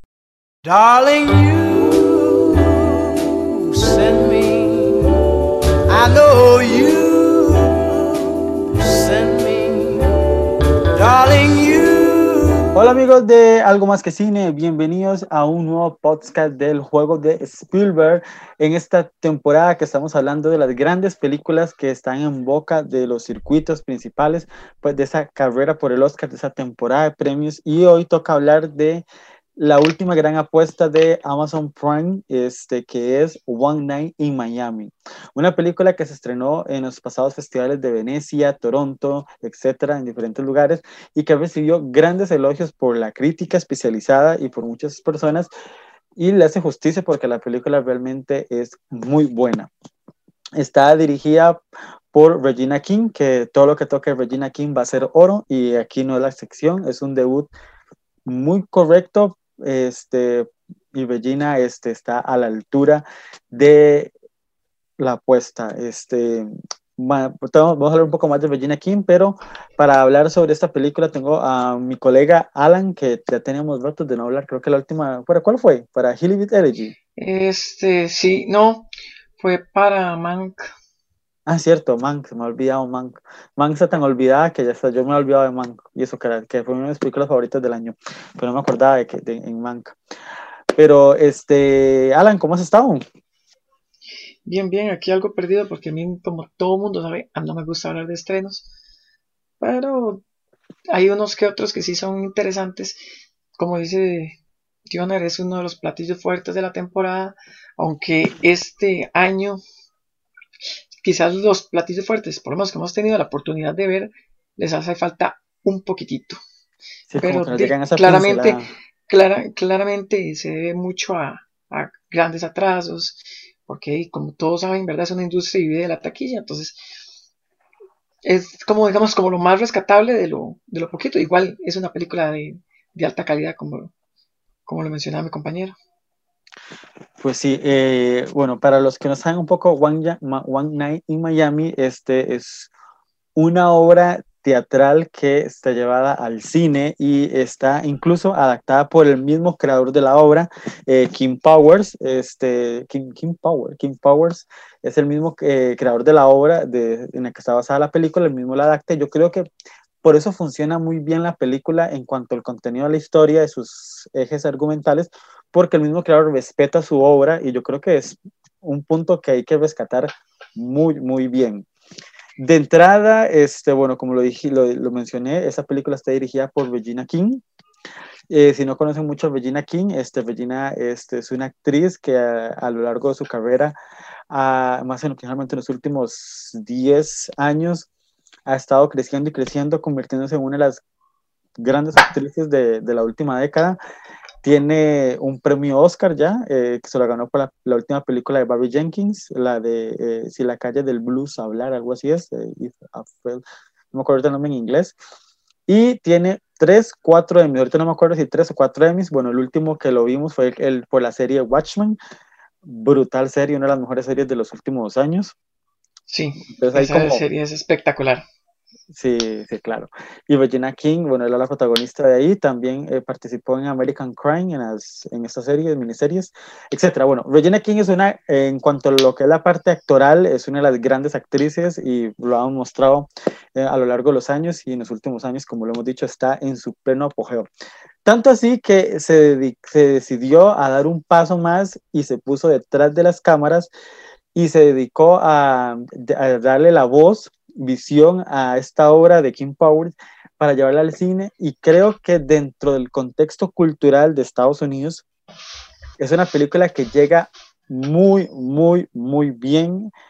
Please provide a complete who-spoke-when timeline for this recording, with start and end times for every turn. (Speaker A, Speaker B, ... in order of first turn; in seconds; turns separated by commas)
Speaker A: 0.7-5.2, Speaker A: 5.9-10.1, Speaker A: 10.9-12.7, Speaker B: 12.7-29.0, Speaker B: 29.6-45.5, Speaker B: 46.2-49.7, Speaker B: 50.6-51.6, Speaker B: 52.1-57.5, Speaker B: 58.3-64.1, Speaker B: 65.0-76.9, Speaker C: 77.2-78.9, Speaker C: 79.4-80.7, Speaker B: 81.5-90.0, Speaker B: 90.8-93.0, Speaker C: 94.5-98.7, Speaker C: 99.6-100.2, Speaker C: 100.9-103.0, Speaker C: 103.6-104.4, Speaker C: 104.9-109.6, Speaker C: 111.0-116.4, Speaker B: 117.1-118.7, Speaker C: 117.2-126.8, Speaker C: 128.2-133.9, Speaker C: 134.7-135.7, Speaker B: 137.2-142.7, Speaker B: 143.4-159.5, Speaker B: 160.0-171.7, Speaker B: 172.4-177.4, Speaker B: 178.3-183.7, Speaker B: 184.3-187.9, Speaker B: 188.5-190.8, Speaker B: 191.6-193.8, Speaker B: 194.4-204.9, Speaker B: 205.7-212.0, Speaker B: 212.6-215.3, Speaker C: 216.1-218.2, Speaker B: 216.5-217.2, Speaker B: 218.9-237.5, Speaker B: 238.1-243.7, Speaker B: 244.3-255.0, Speaker B: 256.0-259.9